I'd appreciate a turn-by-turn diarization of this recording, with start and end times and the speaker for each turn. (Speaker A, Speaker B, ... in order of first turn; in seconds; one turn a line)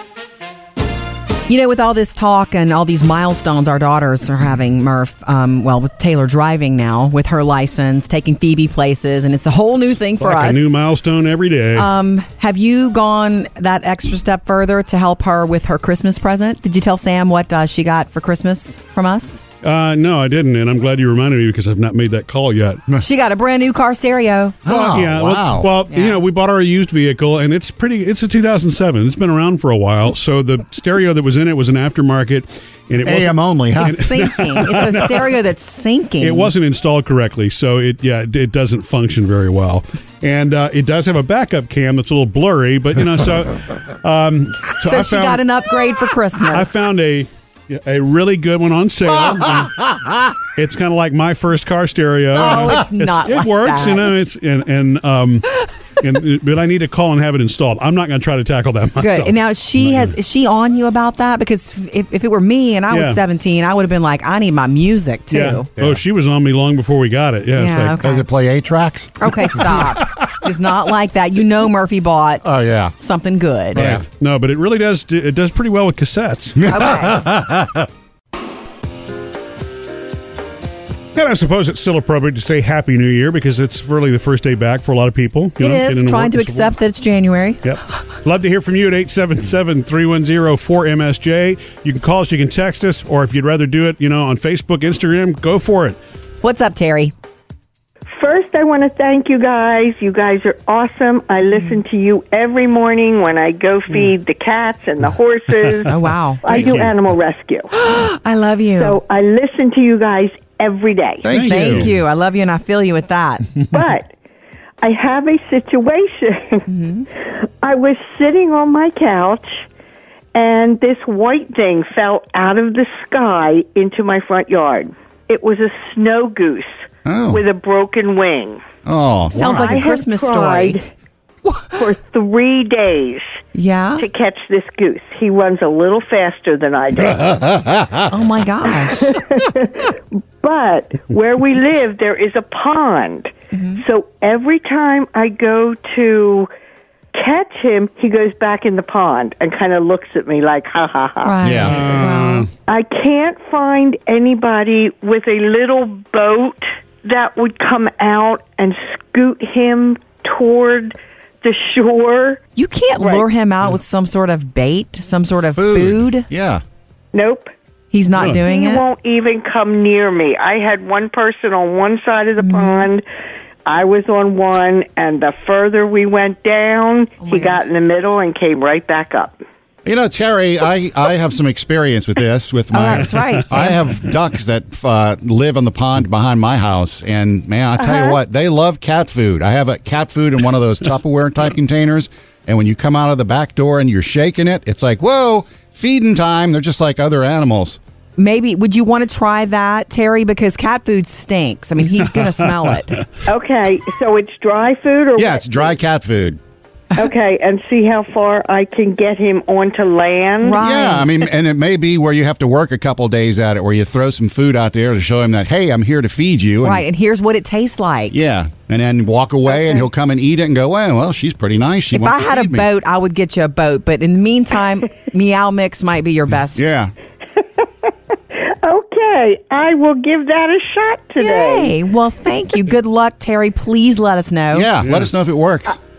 Speaker A: 1.5-10.8
Speaker B: 10.2-11.9
Speaker A: 11.8-19.4
Speaker B: 19.6-22.8
Speaker A: 23.0-24.6
Speaker C: 24.7-25.7
Speaker B: 24.7-35.4
Speaker A: 25.9-26.2
Speaker C: 33.0-34.1
Speaker A: 33.8-36.5
Speaker B: 36.2-45.7
Speaker A: 44.8-46.8
Speaker B: 46.5-49.8
Speaker C: 49.6-50.3
Speaker B: 50.6-59.4
Speaker A: 52.4-54.1
Speaker A: 59.0-65.7
Speaker B: 62.9-63.2
Speaker B: 65.3-68.0
Speaker A: 67.6-68.2
Speaker C: 68.0-69.9
Speaker A: 69.2-72.5
Speaker C: 72.4-72.9
Speaker A: 73.0-73.9
Speaker C: 73.7-74.0
Speaker B: 73.7-76.6
Speaker C: 76.6-77.9
Speaker A: 76.7-77.2
Speaker B: 81.2-86.7
Speaker A: 85.6-87.6
Speaker B: 87.6-96.0
Speaker A: 96.4-97.1
Speaker D: 98.1-107.7
Speaker A: 101.5-101.8
Speaker A: 105.9-106.4
Speaker B: 106.5-106.9
Speaker A: 107.7-109.0
Speaker D: 108.8-111.3
Speaker C: 111.2-111.9
Speaker B: 111.3-111.9
Speaker A: 111.4-113.5
Speaker D: 113.7-114.1
Speaker D: 114.8-116.7
Speaker A: 116.7-117.1
Speaker D: 117.3-119.6
Speaker D: 120.3-128.6
Speaker C: 127.1-127.4
Speaker C: 128.9-129.7
Speaker A: 129.3-130.8
Speaker D: 129.3-130.9
Speaker A: 131.5-131.8
Speaker D: 131.7-133.4
Speaker A: 133.5-134.1
Speaker D: 134.0-137.5
Speaker C: 137.2-138.0
Speaker A: 138.1-139.1
Speaker D: 138.9-146.5
Speaker A: 143.5-143.8
Speaker D: 147.1-151.4
Speaker A: 151.2-152.5
Speaker C: 151.4-151.8
Speaker B: 151.6-152.5
Speaker D: 152.7-162.4
Speaker A: 162.6-166.3
Speaker D: 163.0-163.3
Speaker C: 165.6-166.6
Speaker D: 167.1-167.5
Speaker A: 167.9-168.8
Speaker B: 168.2-168.4
Speaker D: 168.2-173.0
Speaker A: 172.4-172.9
Speaker D: 173.7-179.4
Speaker A: 177.2-177.6
Speaker C: 179.8-197.8
Speaker A: 182.7-183.8
Speaker D: 187.8-188.1
Speaker A: 198.2-203.0
Speaker D: 203.3-205.8
Speaker C: 205.2-206.4
Speaker D: 207.0-210.6
Speaker A: 210.4-211.2
Speaker C: 210.6-216.8
Speaker A: 216.6-218.2
Speaker C: 218.1-222.7
Speaker A: 221.9-226.7
Speaker C: 226.5-226.9
Speaker D: 228.3-231.8
Speaker A: 231.2-234.7
Speaker C: 234.5-235.8
Speaker B: 234.8-235.1